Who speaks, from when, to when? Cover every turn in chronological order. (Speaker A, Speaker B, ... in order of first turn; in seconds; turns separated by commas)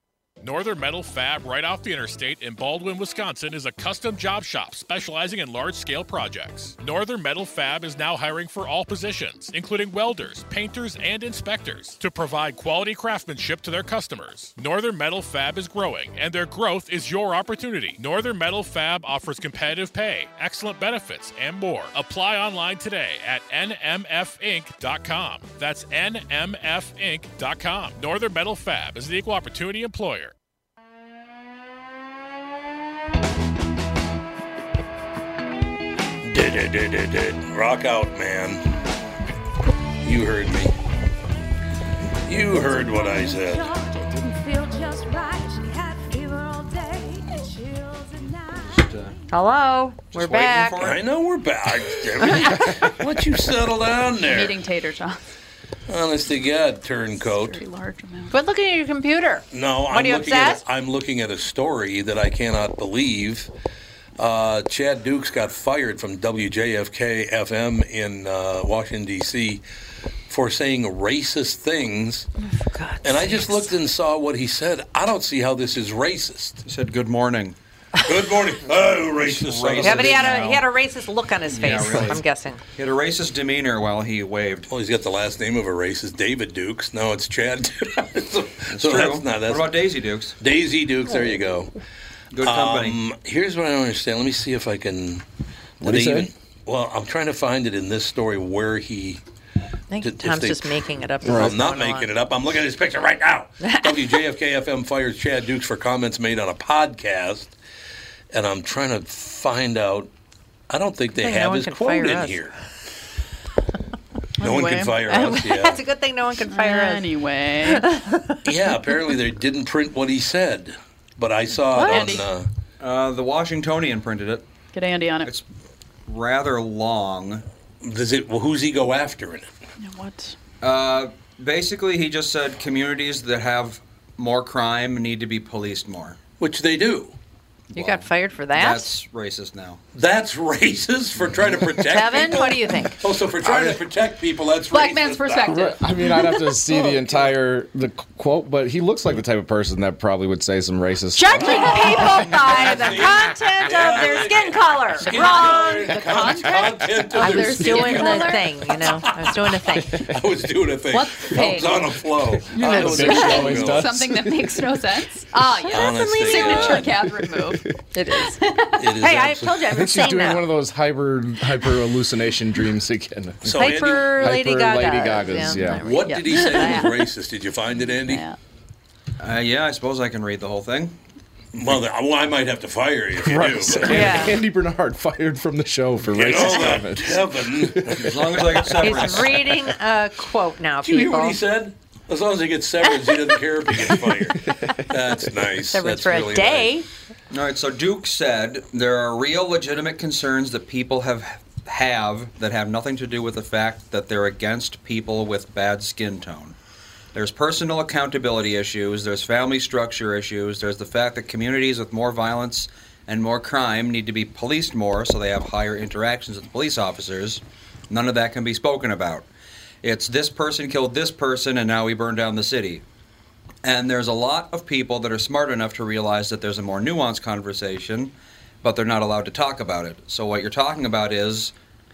Speaker A: 0.4-30.3, Speaker B: 36.2-38.6, Speaker B: 40.0-40.7, Speaker B: 42.2-43.7, Speaker C: 48.6-49.2, Speaker D: 49.3-50.8, Speaker C: 50.1-51.0, Speaker B: 50.8-54.6, Speaker E: 54.2-55.2, Speaker B: 55.9-57.6, Speaker E: 57.2-58.3, Speaker D: 58.3-60.6, Speaker B: 59.5-63.5, Speaker B: 64.2-69.6, Speaker B: 70.3-72.3, Speaker D: 72.4-73.7, Speaker B: 73.0-76.6, Speaker C: 76.6-77.5, Speaker B: 78.0-80.4, Speaker C: 79.0-80.6, Speaker D: 79.8-82.6, Speaker C: 81.5-82.2, Speaker C: 82.8-84.7, Speaker B: 84.7-89.8, Speaker C: 88.7-90.4, Speaker B: 90.4-91.7, Speaker C: 92.3-93.0, Speaker B: 92.4-95.2, Speaker F: 95.8-96.3, Speaker B: 95.8-99.2, Speaker D: 99.9-102.1, Speaker B: 100.0-107.5, Speaker F: 101.2-101.5, Speaker D: 103.6-104.2, Speaker B: 108.3-110.1, Speaker B: 110.7-112.5, Speaker D: 111.2-112.4, Speaker E: 114.4-115.3, Speaker B: 114.4-115.8, Speaker D: 115.1-117.0, Speaker E: 116.5-117.9, Speaker D: 117.7-118.4, Speaker B: 118.4-122.5, Speaker E: 121.7-122.2, Speaker D: 121.8-122.1, Speaker C: 122.8-124.4, Speaker E: 124.7-125.3, Speaker C: 126.1-127.4, Speaker B: 127.8-129.5, Speaker E: 129.8-130.3, Speaker C: 130.6-136.2, Speaker B: 136.4-137.1, Speaker C: 137.7-139.8, Speaker D: 137.7-138.9, Speaker B: 139.9-145.6, Speaker D: 141.8-143.0, Speaker F: 143.5-143.7, Speaker E: 144.7-147.2, Speaker F: 145.5-151.7, Speaker D: 151.1-156.0, Speaker E: 151.3-152.2, Speaker B: 151.4-163.9, Speaker E: 155.0-158.5, Speaker D: 157.2-160.0, Speaker E: 160.9-161.9, Speaker F: 162.4-164.7, Speaker E: 162.5-168.9, Speaker D: 165.6-166.9, Speaker B: 165.7-166.9, Speaker F: 167.2-167.6, Speaker B: 168.8-169.7, Speaker D: 169.0-170.4, Speaker F: 169.7-175.8, Speaker B: 173.4-174.3, Speaker D: 173.5-176.9, Speaker B: 175.8-178.3, Speaker E: 176.3-176.9, Speaker E: 178.1-178.4, Speaker C: 179.2-180.9, Speaker B: 181.5-184.3, Speaker F: 183.2-188.1, Speaker D: 183.8-184.4, Speaker B: 186.1-189.1, Speaker C: 188.0-189.4, Speaker D: 188.8-191.4, Speaker B: 190.8-196.7, Speaker D: 195.7-196.8, Speaker C: 197.3-206.5, Speaker C: 207.1-219.3, Speaker C: 219.8-222.8, Speaker C: 223.6-231.5